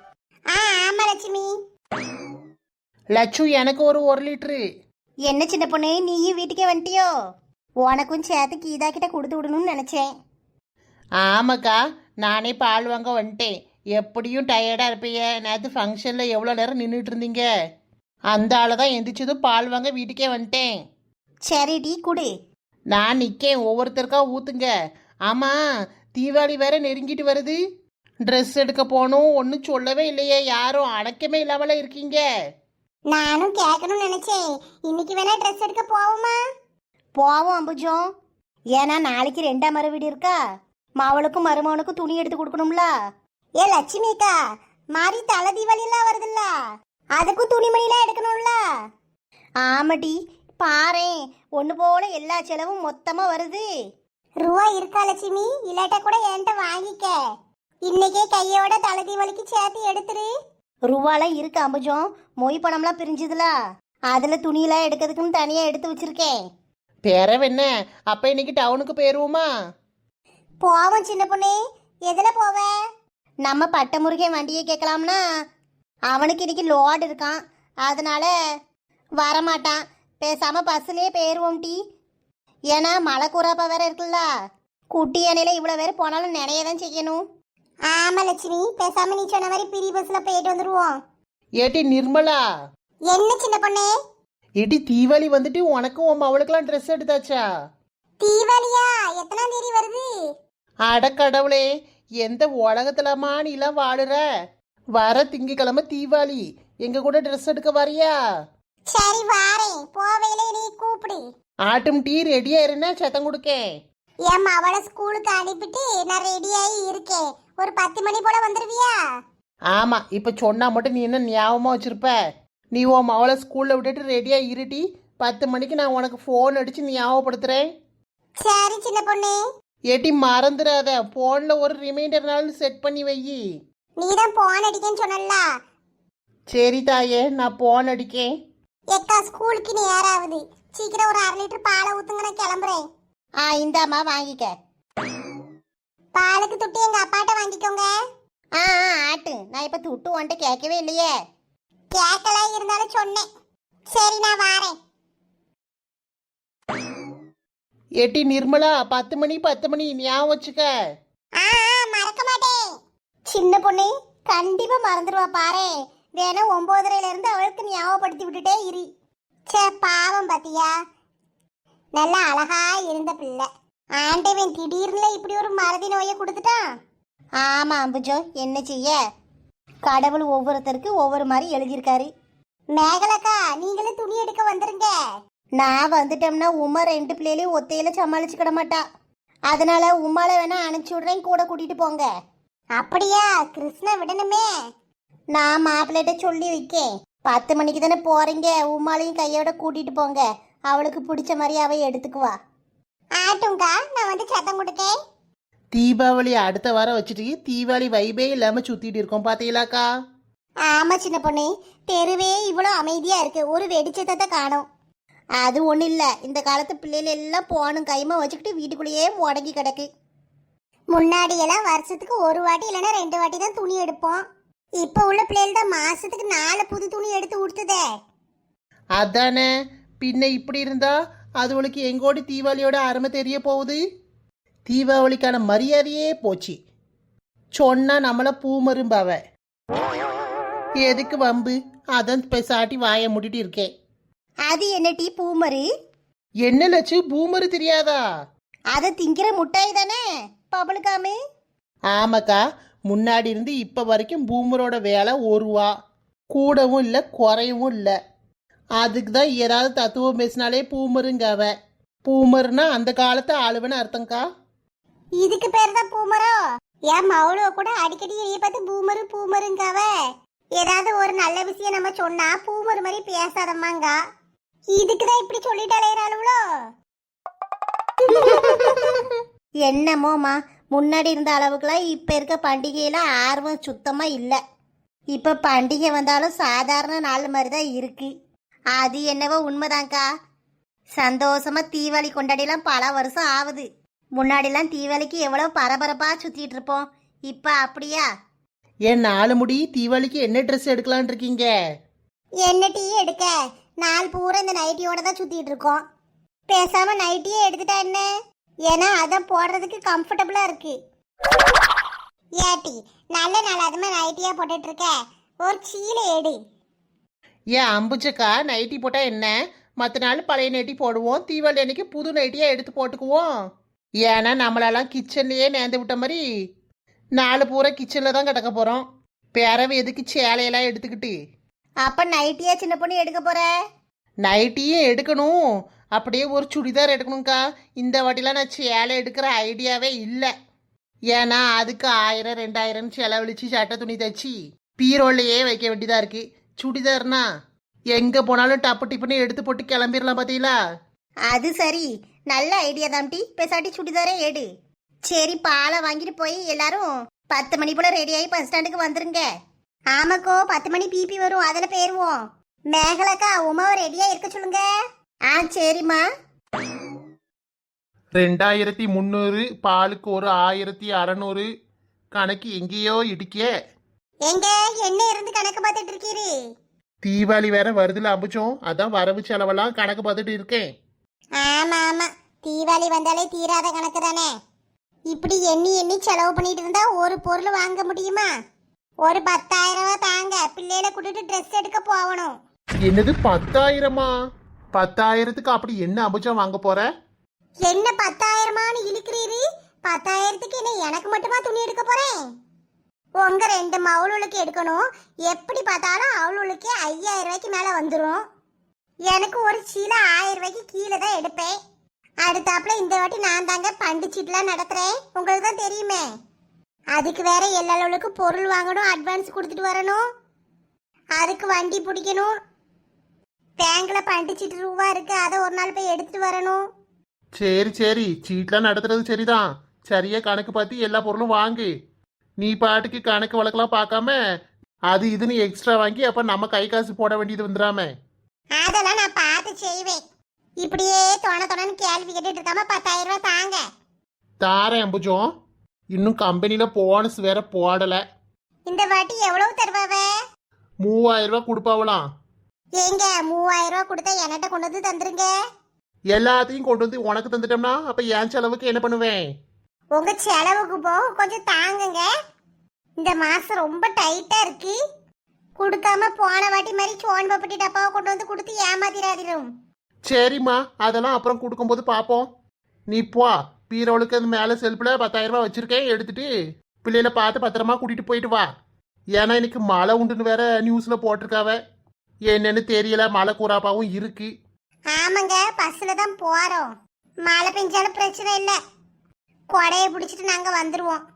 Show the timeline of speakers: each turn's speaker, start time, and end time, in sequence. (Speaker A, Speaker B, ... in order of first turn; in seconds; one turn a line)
Speaker A: 0.5-1.5
Speaker B: 3.1-4.6
Speaker C: 5.3-7.1
Speaker C: 7.8-10.1
Speaker B: 11.2-17.5
Speaker B: 18.3-20.7
Speaker C: 21.5-22.3
Speaker B: 22.9-24.7
Speaker B: 25.3-25.6
Speaker B: 26.1-27.6
Speaker B: 28.3-32.2
Speaker A: 33.1-36.4
Speaker C: 37.2-38.0
Speaker C: 38.8-40.4
Speaker C: 41.0-42.9
Speaker A: 43.6-44.3
Speaker A: 45.0-46.5
Speaker A: 47.2-48.5
Speaker C: 49.6-53.6
Speaker A: 54.4-57.1
Speaker A: 57.9-60.3
Speaker C: 60.9-63.5
Speaker C: 64.1-66.3
Speaker B: 67.0-69.5
Speaker A: 70.6-71.5
Speaker A: 72.1-72.7
Speaker C: 73.5-75.2
Speaker C: 76.1-78.3
Speaker C: 79.2-81.7
Speaker C: 82.7-84.2
Speaker C: 84.9-87.2
Speaker A: 87.9-90.9
Speaker B: 91.6-92.4
Speaker A: 93.1-93.9
Speaker B: 94.6-97.4
Speaker A: 98.2-100.1
Speaker B: 100.9-101.6
Speaker B: 102.2-104.2
Speaker B: 105.0-108.1
Speaker A: 108.9-111.2
Speaker B: 111.7-113.6
Speaker A: 114.3-118.9
Speaker B: 119.7-122.1
Speaker B: 122.7-127.7
Speaker A: 128.4-129.4
Speaker B: 129.9-133.4
Speaker A: 134.0-135.4
Speaker B: 136.5-138.3
Speaker A: 138.9-142.8
Speaker C: 143.4-144.5
Speaker A: 146.1-147.9
Speaker C: 148.6-151.1
Speaker A: 151.9-153.2
Speaker A: 153.9-154.7
Speaker B: 158.0-160.7
Speaker A: 161.4-162.6
Speaker A: 163.3-168.8
Speaker A: 169.5-170.7
Speaker A: 172.0-173.4
Speaker A: 174.0-176.6
Speaker C: 177.4-178.9
Speaker C: 179.9-182.1
Speaker A: 182.7-184.9
Speaker C: 185.6-188.8
Speaker C: 189.5-192.0
Speaker A: 192.8-194.4
Speaker C: 195.3-196.7
Speaker A: 196.5-196.8
Speaker C: 197.3-202.3
Speaker A: 203.2-204.9
Speaker B: 205.7-209.8
Speaker A: 210.7-214.6
Speaker C: 215.4-219.8
Speaker A: 220.9-224.2
Speaker A: 224.8-227.8
Speaker B: 229.0-229.5
Speaker B: 230.0-233.8
Speaker B: 234.7-236.6
Speaker B: 237.6-239.2
Speaker B: 240.8-243.7
Speaker C: 244.5-245.6
Speaker B: 246.4-248.0
Speaker C: 248.8-250.0
Speaker C: 250.5-251.1
Speaker B: 251.9-255.7
Speaker B: 256.3-257.9
Speaker B: 258.8-261.5
Speaker B: 262.1-264.2
Speaker A: 265.2-266.3
Speaker A: 266.9-269.9
Speaker A: 270.6-273.9
Speaker A: 274.7-276.4
Speaker A: 278.1-278.9
Speaker C: 279.7-284.4
Speaker C: 285.1-288.1
Speaker C: 288.8-290.0
Speaker C: 291.0-293.6
Speaker C: 294.2-298.0
Speaker B: 298.9-301.5
Speaker A: 302.4-305.8
Speaker A: 306.5-308.1
Speaker A: 308.7-310.8
Speaker A: 312.4-316.4
Speaker B: 317.5-323.2
Speaker B: 324.1-326.2
Speaker B: 327.2-331.1
Speaker C: 331.9-333.5
Speaker B: 334.2-335.3
Speaker B: 335.9-340.3
Speaker B: 341.1-347.2
Speaker B: 347.9-350.5
Speaker C: 351.3-354.4
Speaker C: 355.1-359.2
Speaker A: 359.9-364.6
Speaker C: 365.3-366.0
Speaker B: 368.1-371.4
Speaker B: 372.1-373.5
Speaker A: 374.3-376.3
Speaker B: 377.0-380.7
Speaker A: 381.4-384.3
Speaker A: 385.1-388.3
Speaker A: 389.0-392.3
Speaker B: 392.9-394.1
Speaker B: 394.8-396.9
Speaker A: 397.6-402.1
Speaker A: 403.2-408.2
Speaker A: 409.1-411.5
Speaker A: 412.2-416.0
Speaker A: 416.9-420.0
Speaker A: 421.2-422.3
Speaker A: 423.6-426.6
Speaker B: 427.4-431.7
Speaker B: 432.4-434.1
Speaker B: 434.9-437.9
Speaker A: 438.6-440.0
Speaker A: 440.6-443.6
Speaker B: 444.4-445.3
Speaker B: 445.9-448.0
Speaker A: 448.7-450.1
Speaker B: 450.8-452.0
Speaker A: 452.8-455.3
Speaker B: 456.1-459.2
Speaker A: 459.9-462.1
Speaker A: 463.0-464.8
Speaker A: 465.6-469.5
Speaker B: 470.1-472.3
Speaker B: 472.9-476.3
Speaker B: 476.8-478.4
Speaker B: 479.1-481.6
Speaker B: 482.3-484.3
Speaker A: 484.9-486.7
Speaker A: 487.2-488.6
Speaker A: 489.5-491.0